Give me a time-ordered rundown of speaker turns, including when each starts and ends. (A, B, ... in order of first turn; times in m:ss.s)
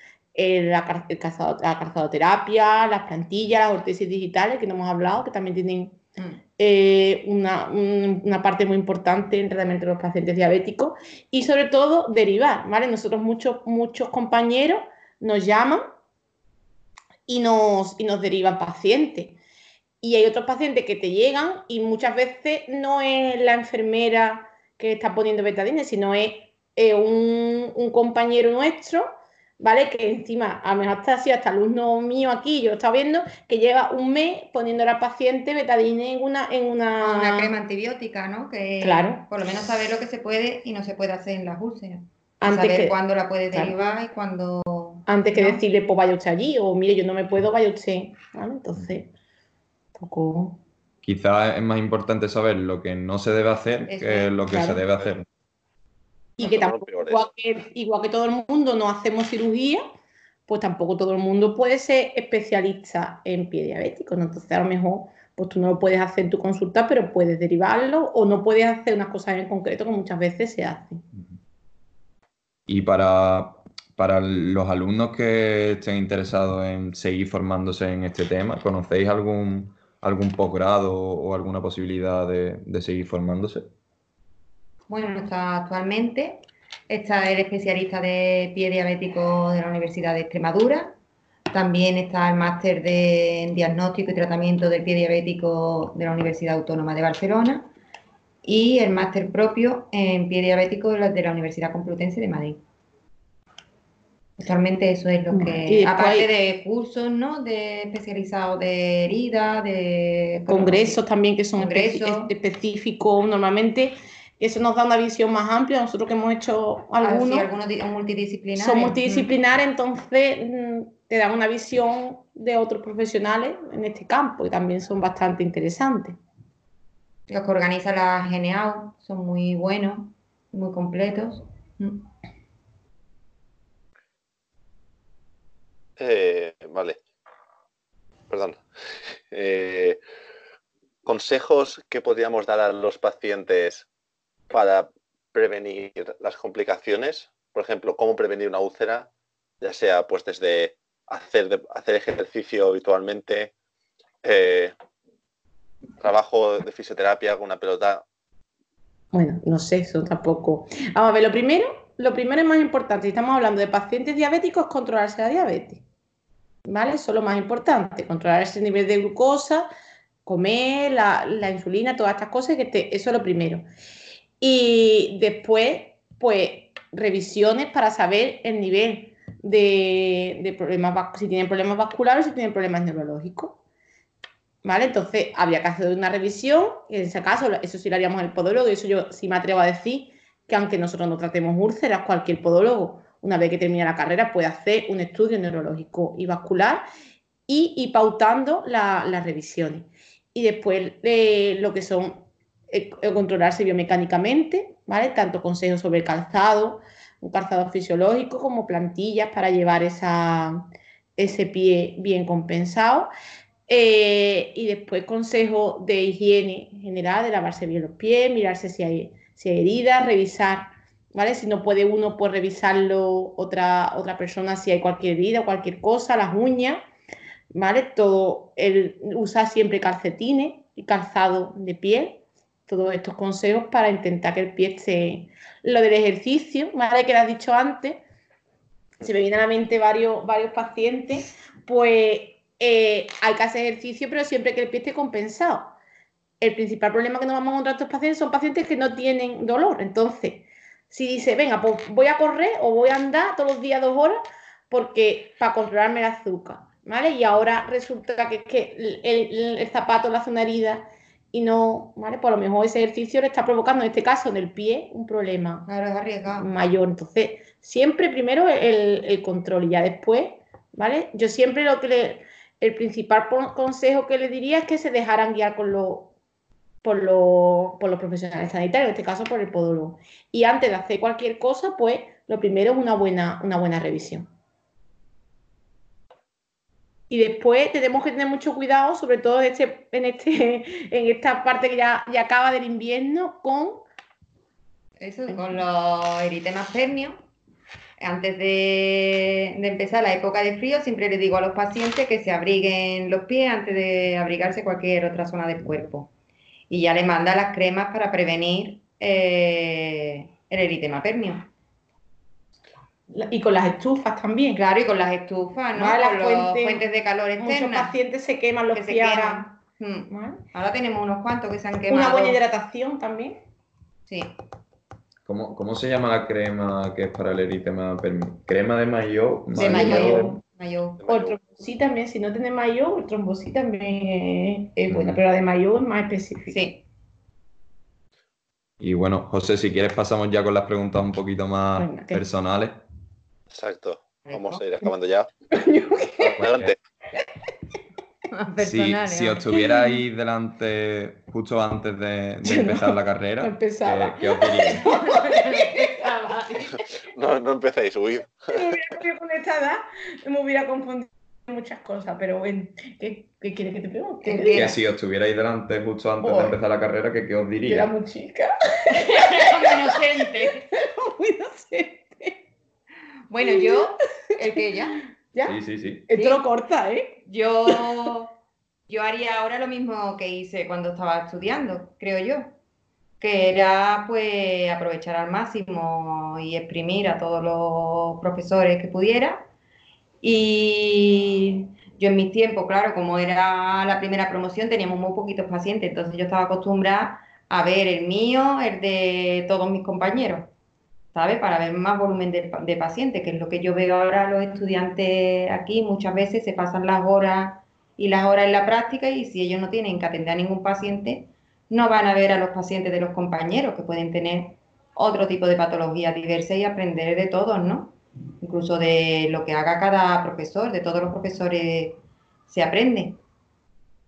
0:00.3-0:06.0 A
0:06.6-0:15.9 A
0:17.3-0:19.4 A
0:20.0-0:37.5 A
0:37.0-0:45.6 B
0:38.8-0:39.2 A
0:42.4-0:42.9 A
0:45.1-0:49.1 A
0:49.9-0:50.6 A
0:51.0-0:55.3 C
0:53.9-0:54.7 B
0:54.5-0:54.8 A
0:56.4-0:59.8 A
0:56.4-0:57.3 D
1:00.5-1:11.0 A
1:12.7-1:23.7 C
1:24.9-1:31.0 B
1:31.5-1:37.7 B
1:38.4-1:42.6 B
1:44.4-1:51.0 B
1:45.3-1:46.3 A
1:50.5-1:57.5 A
1:51.6-1:52.3 B
1:57.0-1:59.3 B
1:58.6-2:06.2 A
2:07.3-2:12.1 B
2:16.0-2:17.0 D
2:18.3-2:18.6 D
2:19.3-2:20.0 D
2:21.0-2:23.9 D
2:24.5-2:29.1 D
2:29.6-2:33.5 D
2:34.2-2:34.7 D
2:36.0-2:38.0 D
2:39.1-2:45.8 A
2:46.6-2:49.7 A
2:50.2-2:53.6 A
2:54.4-3:03.6 A
3:04.6-3:16.8 A
3:17.5-3:33.1 A
3:33.7-3:46.8 A
3:47.5-3:58.0 A
3:59.0-4:05.7 A
4:06.4-4:25.6 A
4:25.6-4:26.5 B
4:26.4-4:36.1 A
4:36.8-4:44.3 A
4:47.1-4:53.8 A
4:55.0-4:57.2 B
4:58.0-5:06.1 B
5:06.7-5:11.5 B
5:13.1-5:14.6 A
5:14.5-5:18.0 B
5:15.7-5:16.8 A
5:17.4-5:19.5 A
5:18.7-5:22.4 B
5:20.1-5:20.4 A
5:21.9-5:23.4 A
5:24.1-5:24.3 B
5:25.2-5:30.4 C
5:29.5-5:30.4 A
5:29.5-5:31.0 B
5:31.0-5:31.5 D
5:31.1-5:36.6 A
5:34.9-5:35.2 C
5:36.5-5:36.8 B
5:38.8-5:42.8 C
5:41.8-5:42.2 A
5:43.5-5:45.3 D
5:44.2-5:44.6 B
5:45.5-5:46.4 A
5:46.2-5:46.8 D
5:46.4-5:46.7 C
5:48.3-5:49.5 B
5:48.6-5:55.0 C
5:52.4-5:56.0 A
5:54.9-5:56.8 B
5:57.1-5:58.6 D
5:58.5-6:04.7 A
6:04.2-6:04.8 B
6:04.5-6:07.9 C
6:06.2-6:06.6 A
6:07.6-6:09.9 A
6:08.9-6:10.7 B
6:10.7-6:12.4 A
6:13.3-6:15.0 B
6:13.4-6:13.8 A
6:15.3-6:15.6 A
6:15.4-6:16.1 C
6:16.1-6:17.8 A
6:16.1-6:16.4 B
6:17.2-6:18.3 B
6:18.9-6:22.5 B
6:23.2-6:29.5 B
6:30.2-6:40.5 B
6:41.1-7:03.2 B